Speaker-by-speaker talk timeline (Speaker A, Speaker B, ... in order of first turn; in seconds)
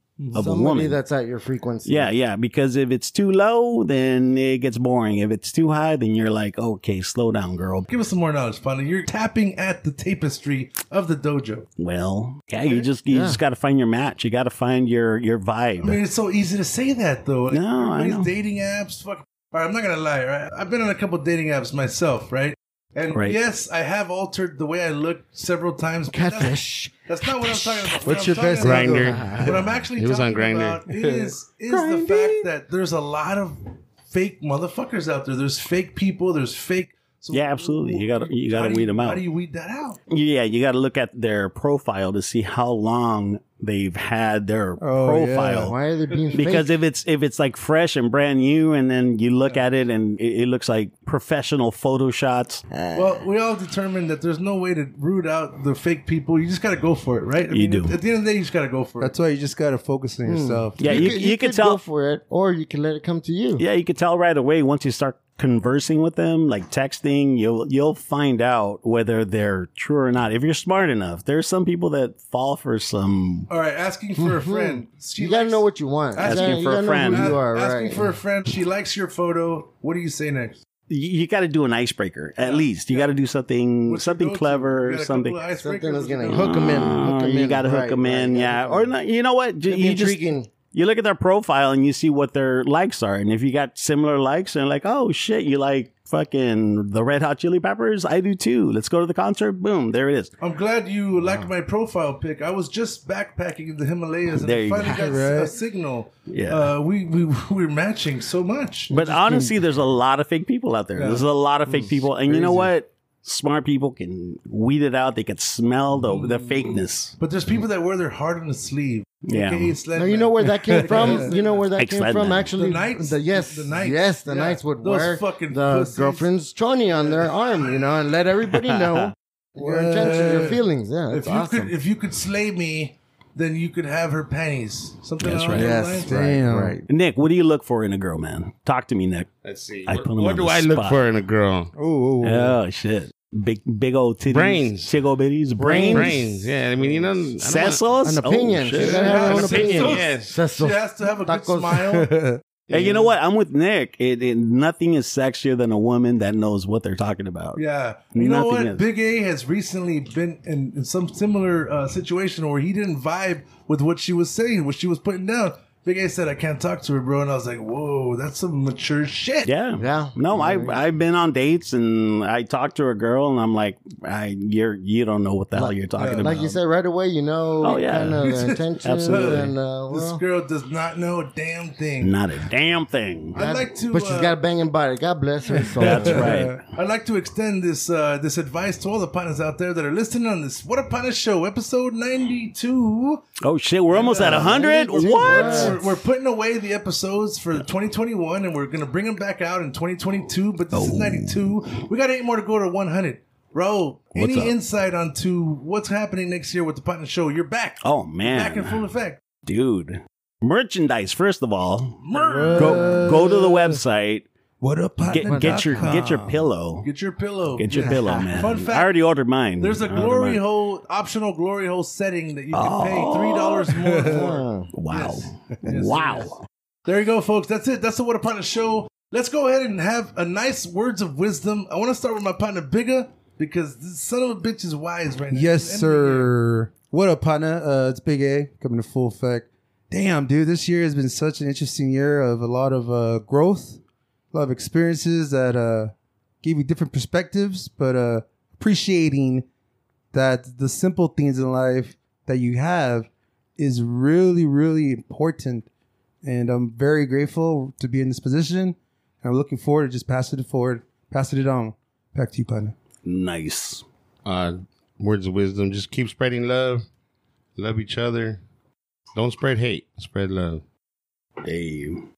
Speaker A: 0.2-0.5, 7.9-11.7, 15.8-40.0, 46.2-46.4, 52.9-59.1, 73.5-80.6, 82.4-83.2, 83.9-86.8, 100.4-108.9, 111.0-112.7, 116.0-121.7, 122.6-126.3, 126.9-127.3, 130.0-136.1, 148.8-152.1, 157.6-169.5, 176.0-176.3, 178.2-182.2, 183.3-184.4, 186.0-193.2, 193.9-209.2, 212.0-213.5, 216.8-218.9, 219.6-226.3, 226.9-236.3
Speaker B: 0.3-1.0, 1.9-7.9, 11.8-16.0, 17.5-18.3, 23.1-23.4, 37.3-39.2, 40.1-45.7, 46.4-52.6, 57.5-58.0, 60.8-61.8, 63.6-73.5, 76.2-77.4, 80.9-85.5, 86.3-90.2, 90.7-100.3, 104.3-105.0, 106.3-106.7, 108.9-117.6, 119.2-119.8, 121.8-122.5, 128.5-129.1, 135.2-135.8, 136.9-139.3, 139.8-141.0, 142.2-146.3, 147.4-149.8, 152.7-157.6, 158.1-158.8, 169.5-176.6, 177.6-178.3, 178.8-179.6, 182.0-183.4, 185.8-186.6, 193.4-195.8, 200.7-201.6, 204.1-204.5, 207.8-208.9, 209.4-212.0, 212.5-214.3, 215.0-216.9, 217.6-220.4, 222.5-223.8, 224.7-226.4, 263.0-263.8, 271.4-272.1
Speaker C: 0.3-2.1, 13.1-13.4, 26.1-29.8, 45.5-46.8, 52.7-53.3, 60.2-63.6, 74.2-78.1, 85.5-89.0, 89.7-90.5, 101.2-101.5, 120.0-131.7, 135.5-136.8, 145.6-146.6, 148.0-152.1, 169.8-170.8, 175.5-180.2, 183.4-186.4, 194.0-196.0, 212.5-213.1, 215.3-216.0, 217.7-218.3, 224.0-224.7
Speaker D: 28.0-29.2, 30.9-32.4, 44.8-45.7, 59.0-61.0, 104.9-105.5, 108.9-109.6, 120.9-121.3, 129.6-130.6, 135.6-136.8, 141.8-142.6, 152.1-152.4, 185.6-186.6, 212.2-213.7, 214.6-216.4, 235.3-243.8, 244.3-249.5, 250.1-255.7, 256.2-262.8
Speaker E: 28.6-30.9, 139.4-141.7, 144.3-144.9, 145.9-147.9, 149.3-150.4, 264.2-266.9, 267.6-268.4, 269.1-270.6